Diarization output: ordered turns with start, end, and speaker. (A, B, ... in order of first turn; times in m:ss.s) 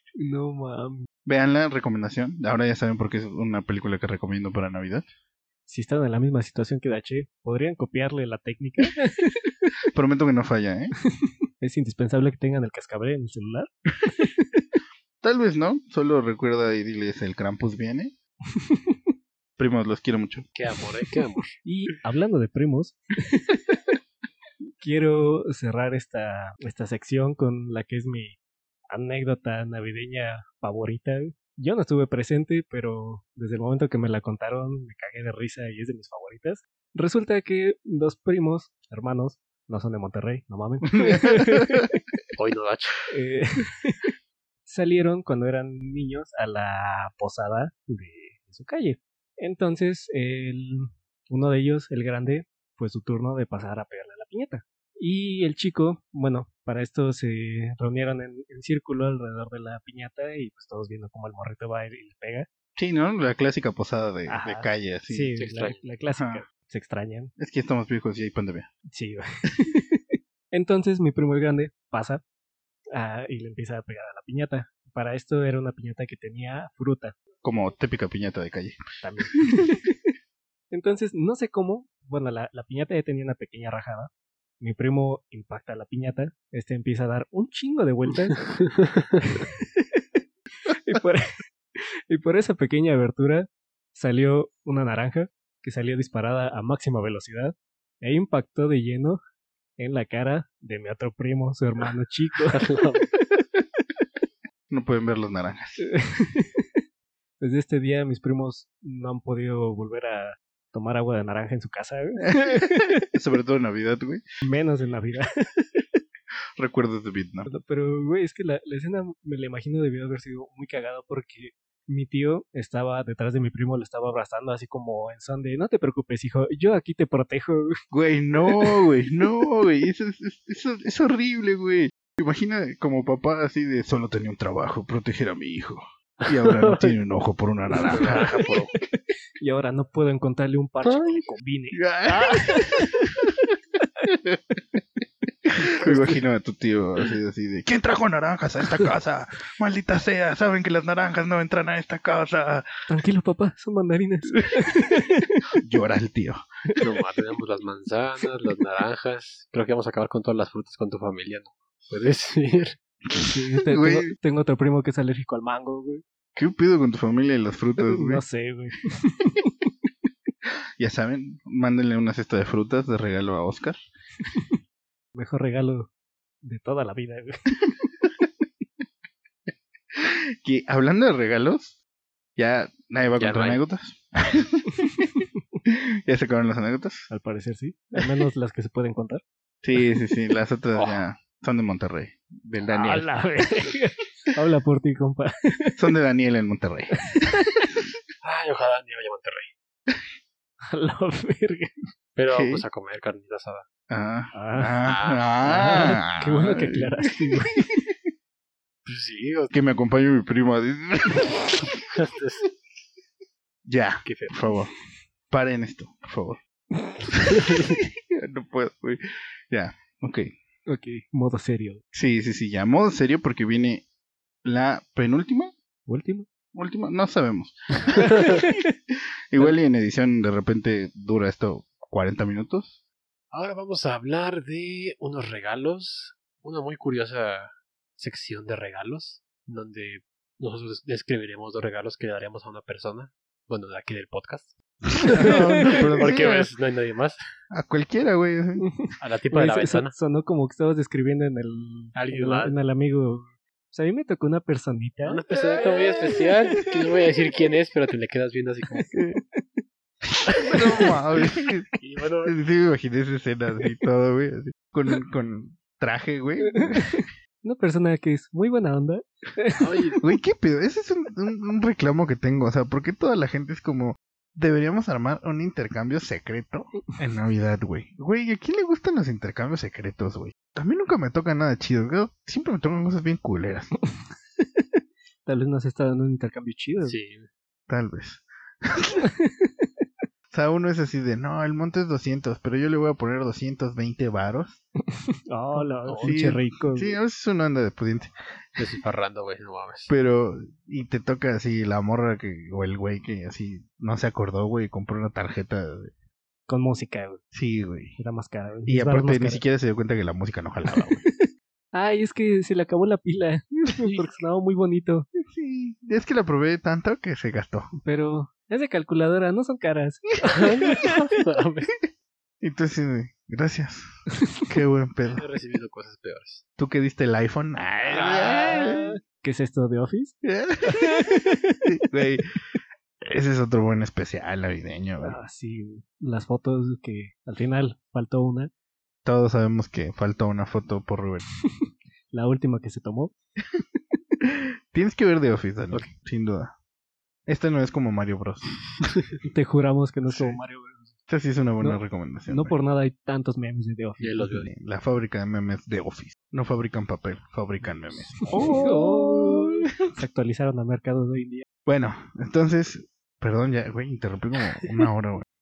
0:00.2-0:01.0 A
0:01.2-0:05.0 B
0:05.7-0:09.3 A
0:09.9-0:10.9 B
0:11.6-0:14.6 A
0:15.2-0:18.1 B
0:18.6-0:18.9 A
0:19.6-0:20.5 B
0:20.6-0:21.6 C
0:21.6-0:23.6 A
0:24.8-0:28.4 A
0:28.9-0:42.0 A
0:41.0-0:41.8 B
0:42.4-0:43.0 C
0:43.1-0:44.1 A
0:44.6-1:02.5 A
1:02.8-1:05.3 B
1:04.3-1:07.3 A
1:05.4-1:05.8 C
1:06.2-1:06.4 B
1:07.4-1:08.7 B
1:08.9-1:12.2 A
1:12.9-1:17.1 A
1:17.4-1:18.8 B
1:19.0-1:19.8 A
1:20.7-1:28.4 A
1:28.4-1:29.0 C
1:29.4-1:30.0 A
1:30.7-1:31.2 A
1:31.8-1:39.2 A
1:39.8-1:42.6 A
1:42.5-1:43.1 C
1:44.7-1:45.9 B
1:45.8-1:46.8 A
1:47.4-1:53.0 A
1:52.3-1:54.2 B
1:54.4-1:55.8 A
1:56.6-1:57.5 B
1:57.5-2:07.7 A
2:07.9-2:18.6 B
2:16.2-2:16.9 C
2:17.7-2:23.0 A
2:17.9-2:18.7 C
2:20.8-2:21.2 C
2:21.7-2:22.9 B
2:24.1-2:24.4 B
2:25.7-2:32.7 B
2:25.8-2:26.1 A
2:32.9-2:35.4 A
2:35.6-2:36.4 B
2:36.8-2:42.8 C
2:43.1-2:44.1 B
2:43.2-2:46.0 A
2:46.3-2:48.2 B
2:47.8-2:49.5 A
2:50.8-2:53.8 B
2:55.1-2:55.9 A
2:56.4-2:57.6 A
2:59.9-3:01.8 B
3:02.4-3:07.1 B
3:03.2-3:03.6 C
3:07.1-3:09.2 A
3:09.6-3:13.1 B
3:10.7-3:11.0 C
3:12.7-3:15.8 A
3:15.8-3:17.1 B
3:17.1-3:17.6 A
3:18.2-3:19.5 C
3:20.7-3:21.7 A
3:22.2-3:23.7 C
3:22.3-3:22.6 B
3:23.9-3:27.6 B
3:24.3-3:24.8 A
3:24.8-3:25.2 C
3:25.4-3:27.6 A
3:28.8-3:29.5 C
3:29.5-3:31.6 B
3:31.8-3:32.4 C
3:33.6-3:34.7 B
3:34.0-3:34.4 C
3:35.3-3:36.4 B
3:38.1-3:40.3 B
3:40.7-3:41.8 A
3:41.9-3:43.8 B
3:44.4-3:45.5 B
3:45.9-3:46.2 A
3:46.5-3:48.3 B
3:48.1-3:48.6 A
3:49.3-3:52.8 B
3:53.3-4:07.2 C
4:05.1-4:06.5 B
4:05.2-4:05.5 A
4:07.5-4:08.6 B
4:08.6-4:15.2 A
4:09.0-4:09.9 C
4:11.9-4:12.6 C
4:15.0-4:18.9 C
4:20.4-4:20.9 A
4:20.5-4:21.7 B
4:21.8-4:22.3 C
4:22.2-4:27.0 B
4:26.6-4:30.0 A
4:29.6-4:30.0 C
4:30.0-4:43.7 B
4:44.4-4:44.6 A
4:45.2-4:47.0 A
4:46.8-4:47.3 C
4:47.7-4:48.2 B
4:49.0-4:49.7 A
4:50.3-4:54.6 B
4:55.3-4:56.9 A
4:55.8-4:56.1 C
4:56.0-4:58.1 B
4:58.6-4:59.9 C
4:59.9-5:05.9 B
5:06.5-5:07.2 A
5:07.3-5:08.0 B
5:08.0-5:09.4 A
5:08.7-5:11.0 B
5:11.7-5:15.1 A
5:15.2-5:17.7 B
5:17.8-5:20.9 A
5:20.3-5:21.7 C
5:22.4-5:23.9 B
5:24.5-5:25.2 B
5:25.1-5:26.4 C
5:26.6-5:28.9 B
5:28.0-5:30.2 A
5:30.2-5:31.0 B
5:30.7-5:31.6 A
5:31.7-5:32.2 B
5:33.0-5:35.2 B
5:35.0-5:38.5 A
5:39.0-5:41.2 B
5:41.6-5:43.1 A
5:44.7-5:46.5 B
5:47.3-5:48.6 B
5:49.2-5:50.9 A
5:50.1-5:50.4 B
5:51.1-5:52.6 B
5:51.6-5:54.3 A
5:54.0-5:54.5 C
5:54.3-5:59.6 B
5:58.3-6:01.4 A
6:01.6-6:05.2 B